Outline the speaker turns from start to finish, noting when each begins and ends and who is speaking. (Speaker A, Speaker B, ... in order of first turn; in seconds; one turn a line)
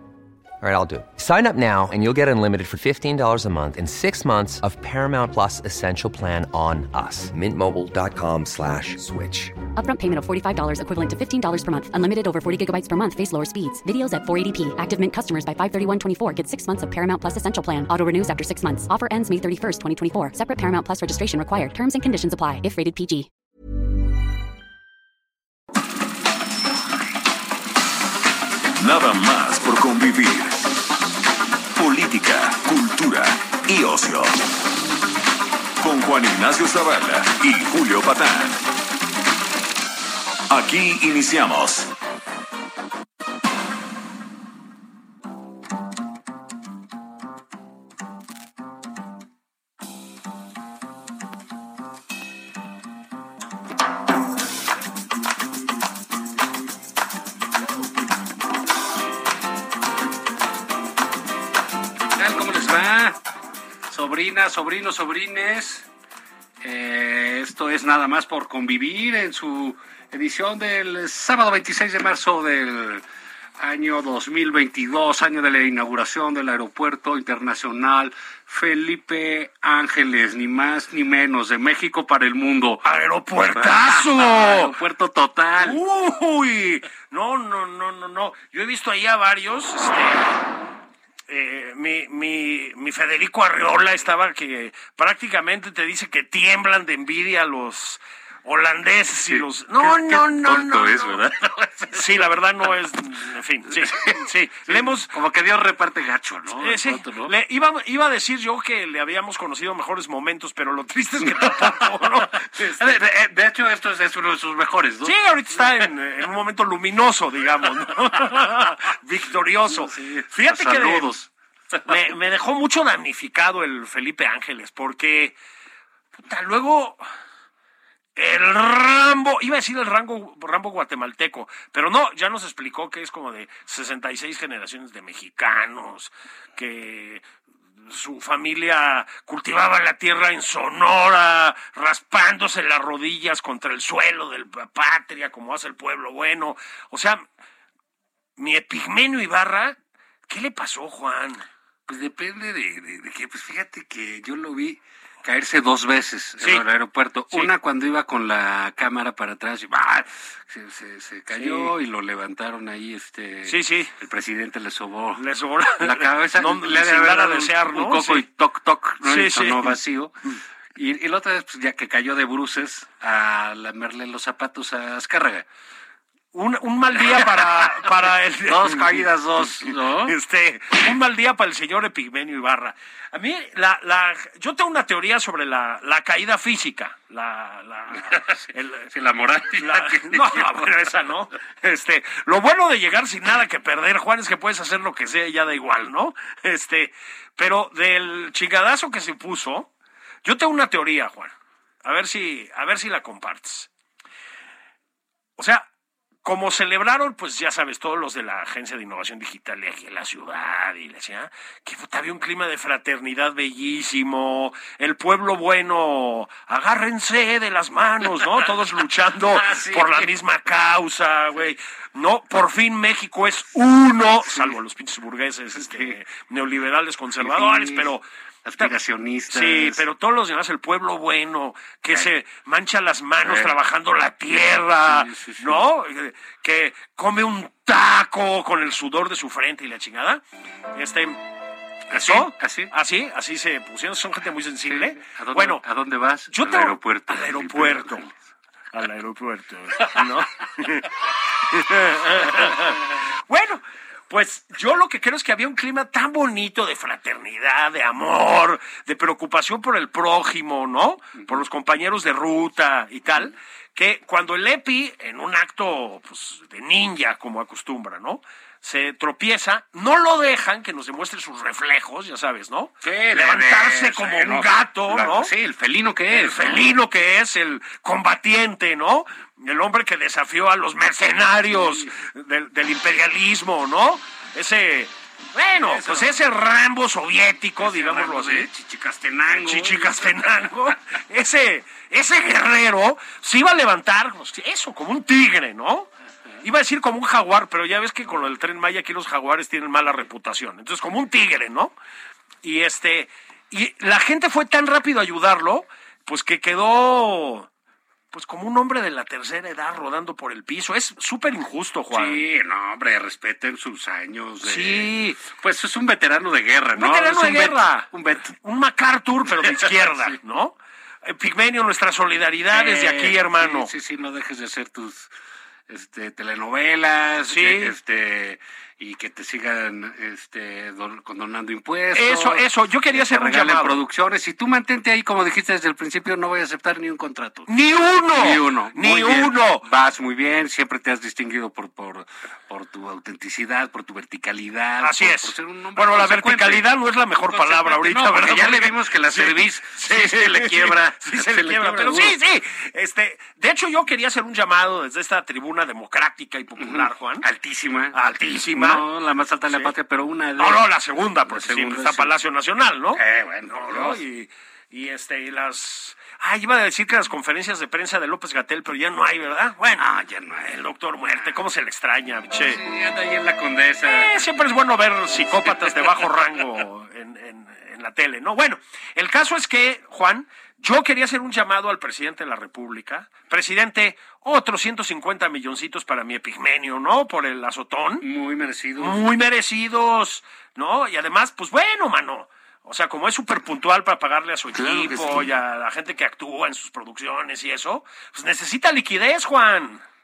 Speaker A: 0.6-9.6
Speaker B: 9.7-23.3
Speaker C: 28.8-30.8
Speaker C: 31.8-34.4
Speaker C: 35.8-38.6
Speaker C: 40.5-41.9
Speaker D: 62.1-63.2
Speaker D: 63.9-65.9
Speaker D: 66.6-73.0
Speaker D: 73.6-82.8
Speaker E: 82.8-84.7
Speaker D: 83.5-85.8
Speaker E: 85.6-90.5
Speaker E: 91.3-101.2
Speaker D: 99.2-102.2
Speaker E: 101.9-105.1
Speaker D: 103.7-107.3
Speaker E: 106.5-113.0
Speaker D: 111.2-111.8
Speaker D: 112.6-115.9
Speaker E: 115.0-121.1
Speaker D: 119.7-122.0
Speaker E: 121.8-125.3
Speaker E: 126.2-127.0
Speaker E: 128.2-137.2
Speaker E: 137.8-147.2
Speaker E: 148.4-149.8
Speaker E: 150.3-151.4
Speaker D: 151.9-165.2
Speaker E: 156.4-156.6
Speaker E: 161.3-161.7
Speaker E: 163.4-163.9
Speaker E: 165.2-168.2
Speaker D: 165.8-175.4
Speaker E: 169.0-169.8
Speaker E: 176.3-179.1
Speaker D: 176.9-180.2
Speaker E: 179.6-188.9
Speaker D: 187.9-191.0
Speaker E: 189.6-199.7
Speaker E: 200.2-201.3
Speaker E: 201.8-203.7
Speaker E: 205.4-205.7
Speaker E: 206.2-228.0
Speaker D: 219.3-220.1
Speaker D: 224.2-224.6
Speaker D: 225.5-226.0
Speaker D: 227.2-227.9
Speaker D: 228.4-229.8
Speaker E: 229.3-240.2
Speaker D: 233.2-233.6
Speaker D: 234.8-235.7
Speaker E: 240.7-241.2
Speaker D: 241.9-242.7
Speaker E: 241.9-245.6
Speaker D: 244.7-248.1
Speaker E: 246.3-248.1
Speaker E: 248.7-275.3
Speaker D: 272.8-276.7
Speaker E: 276.1-288.5
Speaker D: 281.5-281.9
Speaker D: 285.6-286.2
Speaker D: 287.6-290.1
Speaker E: 289.3-295.9
Speaker E: 296.4-301.7
Speaker E: 302.4-307.5
Speaker E: 308.1-312.2
Speaker D: 311.9-318.4
Speaker E: 314.4-315.1
Speaker E: 316.7-323.7
Speaker D: 319.3-320.2
Speaker D: 322.5-325.1
Speaker D: 325.7-337.5
Speaker E: 327.2-327.8
Speaker E: 331.9-333.8
Speaker E: 337.5-339.7
Speaker D: 338.1-346.7
Speaker E: 344.8-357.2
Speaker D: 347.3-352.2
Speaker D: 356.6-358.0
Speaker E: 357.9-358.8
Speaker D: 358.5-360.7
Speaker E: 360.4-369.9
Speaker D: 361.2-362.1
Speaker D: 362.9-364.0
Speaker D: 369.8-371.4
Speaker E: 370.5-372.6
Speaker D: 372.3-374.3
Speaker E: 373.8-388.0
Speaker D: 375.3-376.1
Speaker D: 388.0-389.0
Speaker E: 388.8-399.8
Speaker D: 394.6-395.0